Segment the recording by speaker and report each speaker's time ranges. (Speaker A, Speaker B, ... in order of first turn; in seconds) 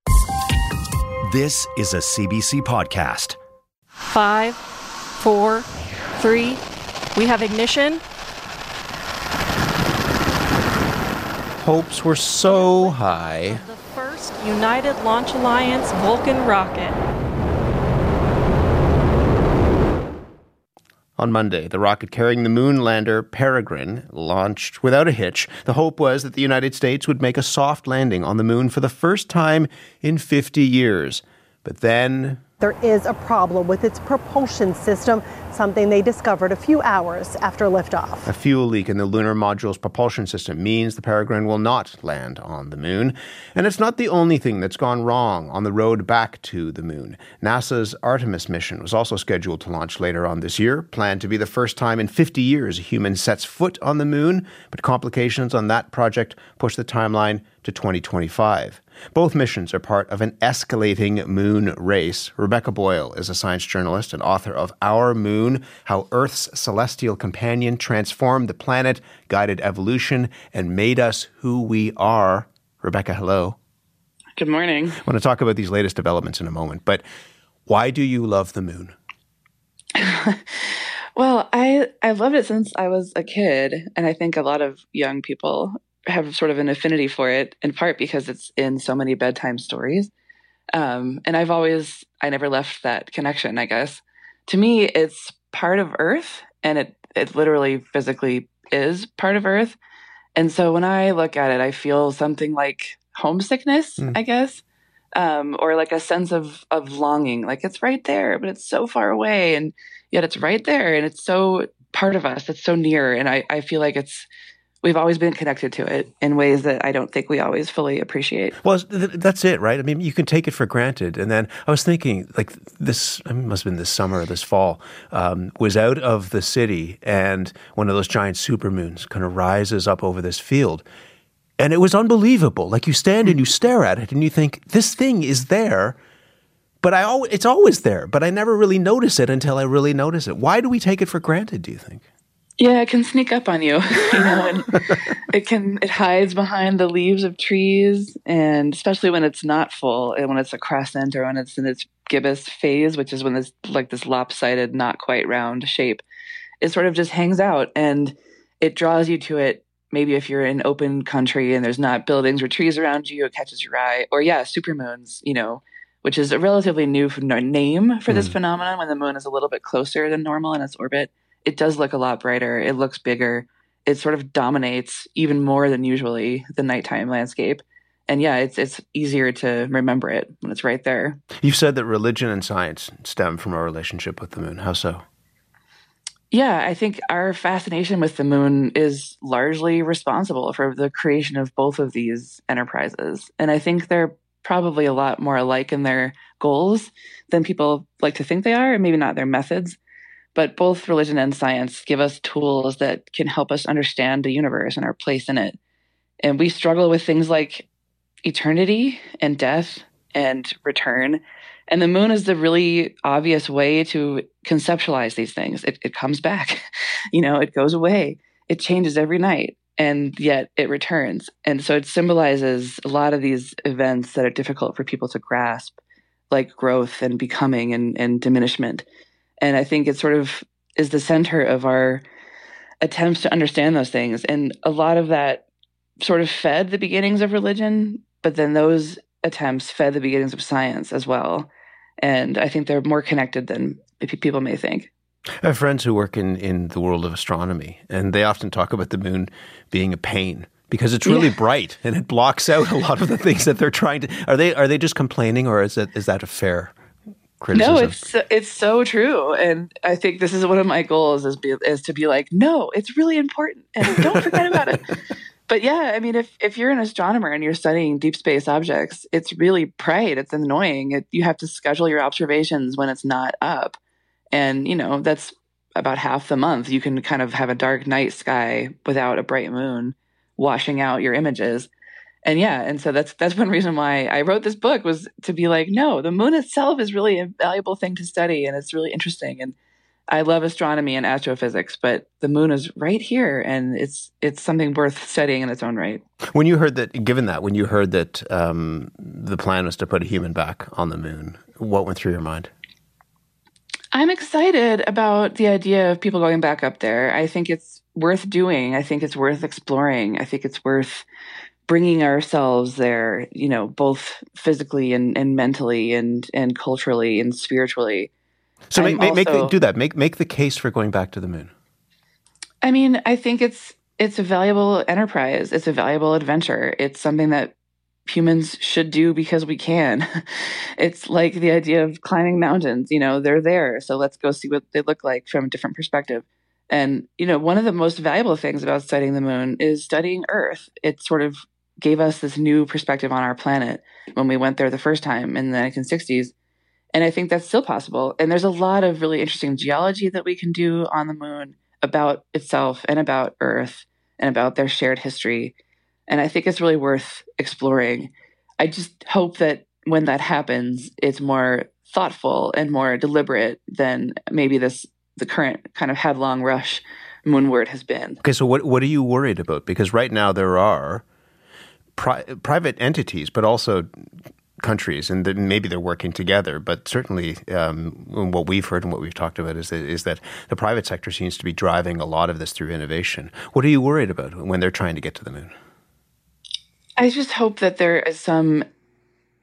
Speaker A: 1.2-3.4
Speaker B: 4.0-4.6, 5.2-6.6, 7.1-8.0, 12.4-17.0
Speaker C: 11.6-13.6, 21.2-32.4, 38.2-73.5, 75.0-77.0, 77.7-78.9, 118.6-130.8, 131.6-136.0, 136.8-142.0, 168.1-168.3, 181.4-185.0, 245.4-256.7, 257.4-258.0, 296.3-302.5, 318.7-321.5, 368.2-371.0, 371.9-373.9, 374.6-385.5
Speaker D: 32.6-38.3
Speaker E: 74.4-75.0, 79.9-90.1, 90.7-99.8, 100.3-104.6, 105.1-114.3, 114.8-118.5, 142.6-156.0, 156.6-181.2, 186.3-199.8, 200.3-205.6, 206.2-207.7, 208.2-225.8, 226.3-228.8, 229.4-232.0, 232.8-235.4, 236.0-244.9, 251.1-251.3, 257.5-264.9, 265.5-273.8, 274.3-281.7, 282.2-289.5, 290.1-296.0, 303.9-311.1, 311.7-318.1, 318.7-319.5, 322.6-327.5, 328.1-346.3, 346.9-355.5, 356.1-368.2, 387.0-388.6